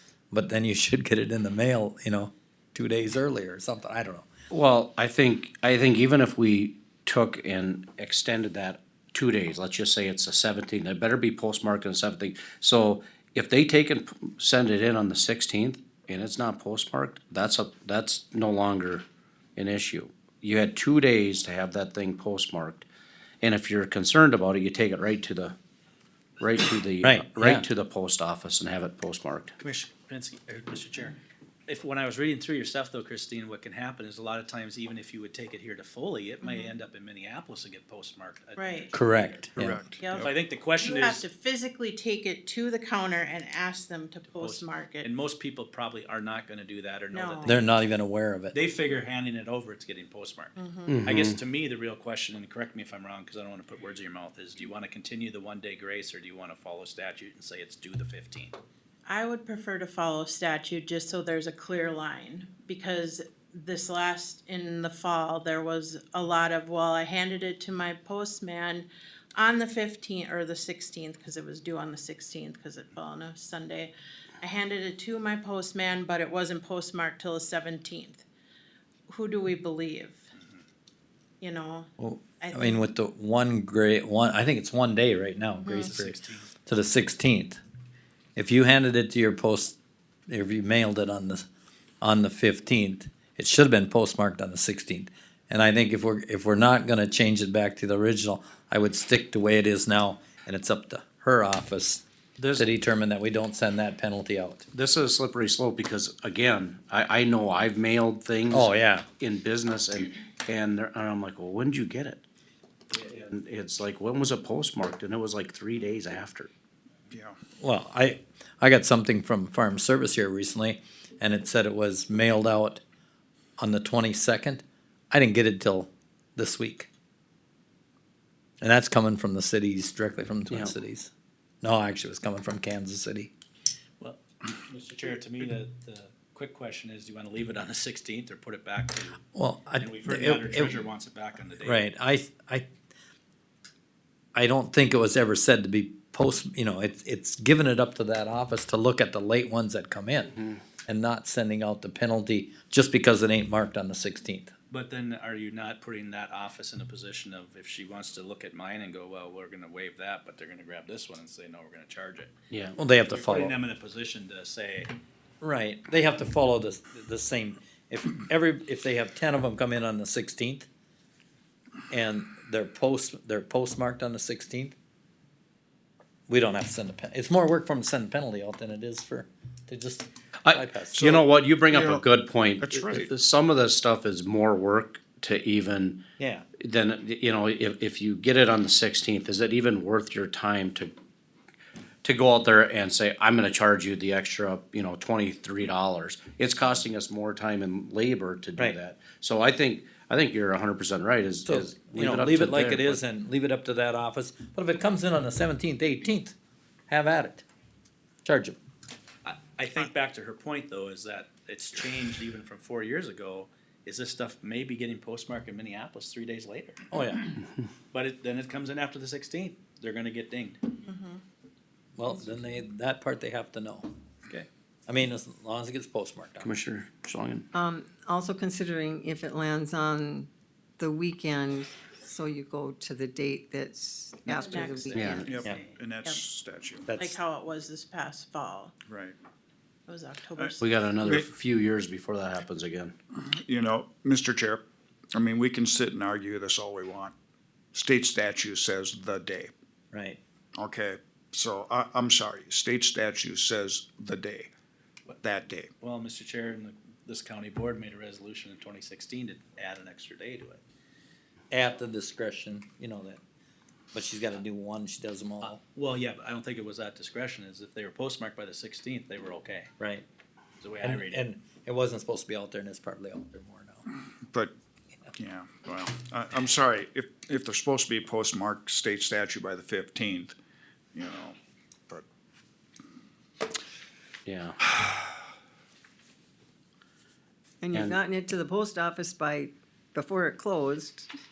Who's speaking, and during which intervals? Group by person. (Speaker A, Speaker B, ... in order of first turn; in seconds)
Speaker A: 0.3-4.3, 27.0-27.7, 38.9-39.8, 47.4-48.6, 82.0-86.1, 86.7-87.6, 88.4-89.8, 90.3-91.5, 92.0-102.0, 102.6-104.7, 108.5-109.1, 117.6-122.8, 123.6-126.9, 128.6-131.1, 131.6-133.3, 139.3-140.8, 141.6-142.7, 144.3-154.5, 162.8-163.6, 165.4-170.7, 171.9-174.8, 176.3-181.1, 186.2-186.5, 201.5-206.4, 206.9-207.5, 208.2-208.6, 216.9-217.3, 222.0-226.6, 236.9-237.2, 249.9-250.2, 261.5-263.2, 263.9-265.6, 269.8-270.1, 270.8-273.9
Speaker B: 4.5-19.1, 19.6-22.9, 23.4-25.6, 26.4-29.6, 50.9-51.4, 102.4-102.7, 104.7-112.2, 112.9-116.5, 162.5-162.8, 180.4-186.0, 186.6-190.9, 192.0-203.0, 226.4-227.5, 235.0-235.3, 240.6-242.9, 284.3-284.6
Speaker C: 29.6-39.4, 40.2-41.2, 44.2-47.7, 48.5-58.6, 85.8-86.5, 134.0-139.2, 139.8-141.9, 154.7-162.3, 163.1-164.9, 209.2-216.8, 217.9-220.7, 255.8-260.6, 265.4-269.7, 270.6-271.2
Speaker D: 36.4-36.7, 38.5-39.0, 40.0-45.1, 47.1-47.7, 50.6-51.0, 59.1-78.2, 79.1-80.3, 81.4-82.9, 85.6-86.0, 220.8-221.2, 234.3-236.2, 237.0-238.8, 239.9-240.7
Speaker E: 39.6-40.3, 117.1-117.4, 180.9-182.0, 182.6-183.1, 235.2-236.9, 238.9-239.2, 240.4-241.3, 243.3-247.1, 247.7-249.5, 250.6-254.5, 255.2-255.7, 275.2-280.4, 280.9-281.4
Speaker F: 227.5-235.3, 287.6-291.1